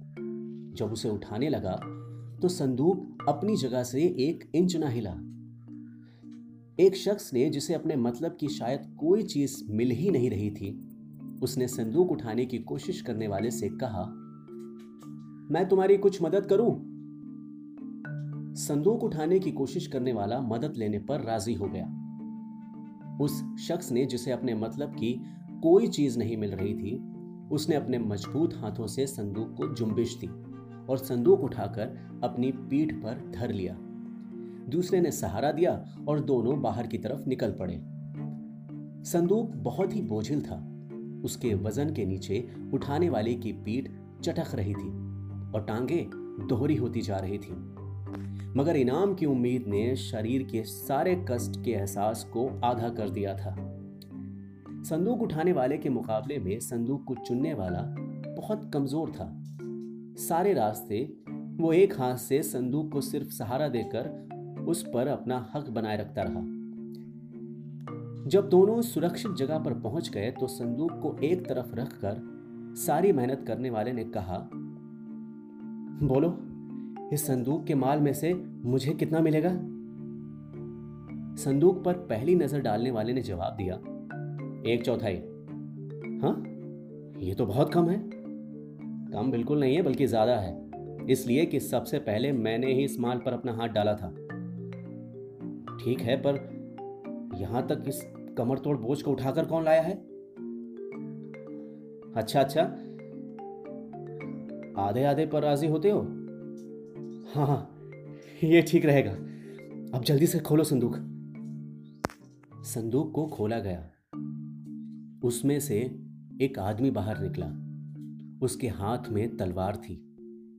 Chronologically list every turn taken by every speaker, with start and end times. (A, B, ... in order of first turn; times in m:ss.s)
0:00.7-0:05.2 A
0:06.8-0:10.8 A
0:11.4-0:14.1 A
0:15.5-0:16.9 A
0:18.5-0:21.9 A
0:23.2-0:33.8 A
0:34.7-0:37.8 A
0:39.0-0:40.7 A
0:41.2-0:45.0 A
0:45.5-0:47.6 A
0:48.5-0:53.6 A
0:54.8-0:59.4 A
1:00.2-1:06.5 A
1:08.2-1:14.5 A
1:16.0-1:16.5 A
1:17.1-1:19.7 A
1:21.4-1:23.8 A
1:24.6-1:25.3 A
1:26.2-1:26.6 A
1:27.2-1:28.1 A
1:29.1-1:34.2 A
1:35.8-1:36.5 A
1:37.3-1:40.0 A
1:42.1-1:42.8 A
1:44.8-1:46.2 A
1:47.3-1:47.8 A
1:48.3-1:49.3 A
1:49.9-1:51.1 A
1:52.6-1:53.9 A
1:55.2-1:57.6 A
1:58.4-2:00.0 A